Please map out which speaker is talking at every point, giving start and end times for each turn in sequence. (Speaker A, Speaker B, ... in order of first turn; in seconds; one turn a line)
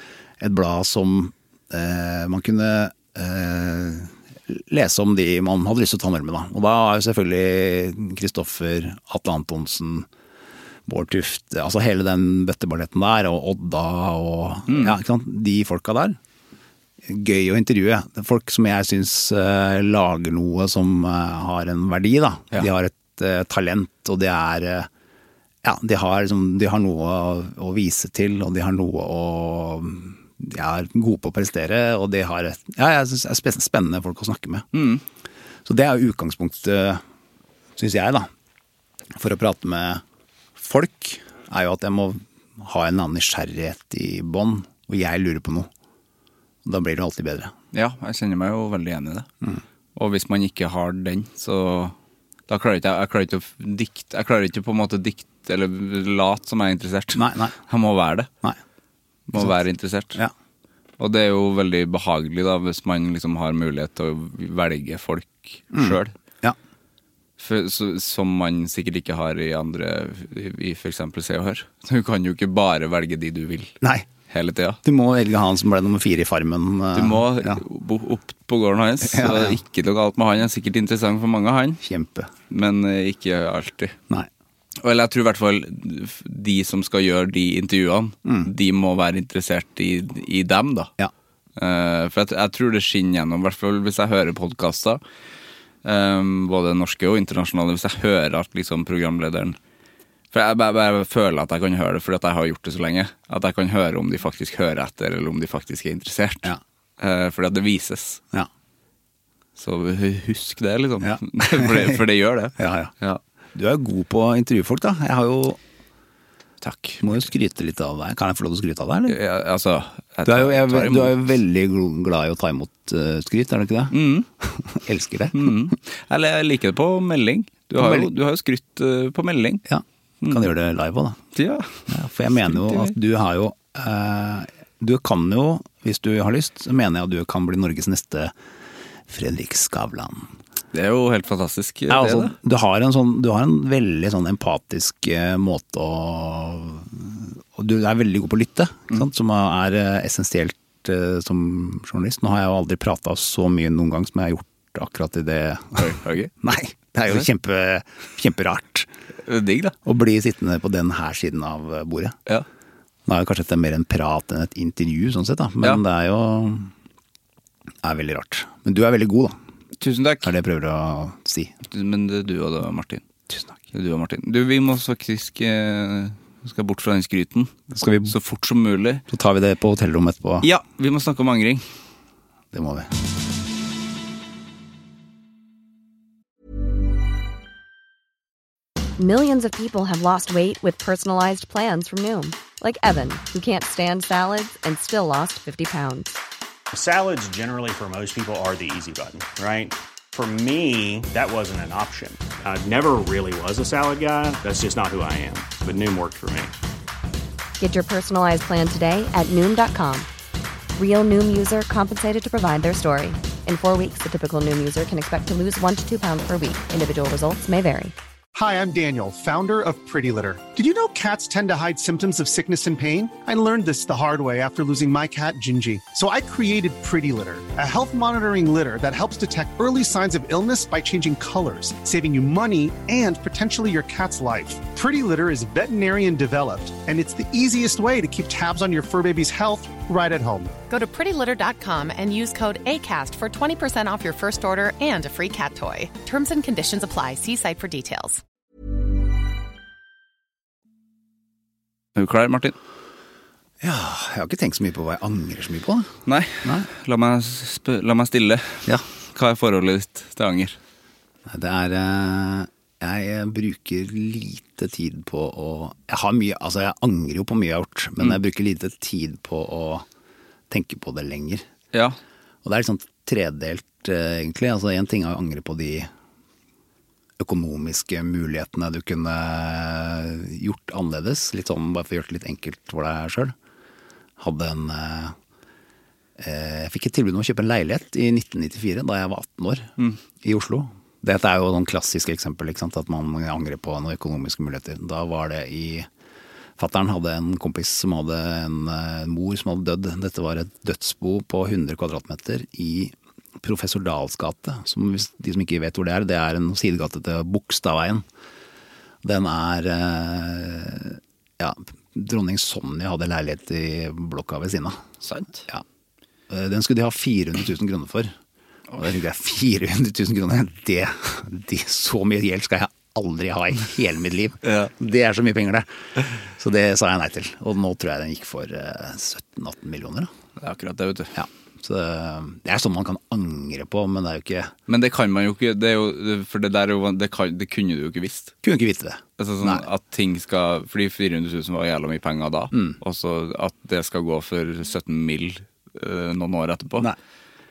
Speaker A: 0.4-10.1
Speaker A: 10.9-16.2
Speaker B: 14.7-14.9
Speaker A: 17.0-24.9
Speaker A: 25.6-34.7
Speaker B: 34.7-35.0
Speaker A: 35.6-37.0
Speaker A: 37.8-38.3
Speaker A: 39.1-40.0
Speaker A: 40.6-45.7
Speaker A: 46.6-47.5
Speaker B: 47.7-49.3
Speaker B: 49.9-51.9
Speaker B: 52.5-58.3
Speaker A: 57.1-57.5
Speaker B: 59.3-60.2
Speaker B: 61.0-66.1
Speaker A: 65.7-66.6
Speaker B: 67.4-74.8
Speaker A: 73.8-74.1
Speaker A: 74.8-77.6
Speaker B: 76.9-81.8
Speaker A: 79.0-79.6
Speaker A: 81.8-82.3
Speaker B: 82.5-84.0
Speaker B: 84.8-90.9
Speaker A: 88.2-88.5
Speaker B: 91.6-95.0
Speaker B: 95.8-99.6
Speaker B: 100.3-108.2
Speaker B: 109.6-113.2
Speaker A: 111.0-112.0
Speaker A: 112.6-112.9
Speaker A: 113.5-115.6
Speaker B: 116.6-117.2
Speaker A: 117.0-119.2
Speaker B: 119.1-121.2
Speaker A: 120.2-125.7
Speaker B: 123.9-124.3
Speaker B: 125.3-129.6
Speaker A: 127.8-128.1
Speaker A: 129.7-131.2
Speaker B: 130.2-130.5
Speaker B: 131.3-132.9
Speaker A: 131.9-138.3
Speaker A: 139.1-140.3
Speaker B: 140.7-142.3
Speaker A: 141.9-158.9
Speaker B: 155.8-156.3
Speaker B: 159.3-159.8
Speaker A: 159.8-162.2
Speaker A: 163.1-166.7
Speaker A: 167.8-169.4
Speaker B: 169.8-170.3
Speaker A: 170.2-171.6
Speaker B: 171.7-173.0
Speaker A: 173.3-173.6
Speaker B: 173.7-179.0
Speaker A: 177.7-178.2
Speaker A: 179.1-180.5
Speaker B: 180.4-181.7
Speaker A: 182.5-182.9
Speaker C: 189.0-196.2
Speaker D: 196.7-206.5
Speaker C: 207.6-210.1
Speaker C: 210.8-217.9
Speaker E: 218.3-240.6
Speaker F: 240.7-248.2
Speaker B: 251.9-252.6
Speaker A: 253.6-255.9
Speaker B: 256.1-260.6
Speaker A: 261.3-269.9
Speaker A: 270.5-271.4
Speaker A: 272.4-275.9
Speaker A: 277.2-283.3
Speaker A: 284.2-285.1
Speaker A: 286.2-295.9
Speaker A: 296.6-308.0
Speaker A: 309.0-314.8
Speaker B: 315.0-315.4
Speaker A: 316.3-318.1
Speaker A: 318.8-330.1
Speaker B: 324.4-324.7
Speaker B: 330.4-331.1
Speaker A: 331.1-334.5
Speaker B: 334.7-338.3
Speaker A: 338.4-339.6
Speaker B: 339.2-346.9
Speaker A: 342.5-342.8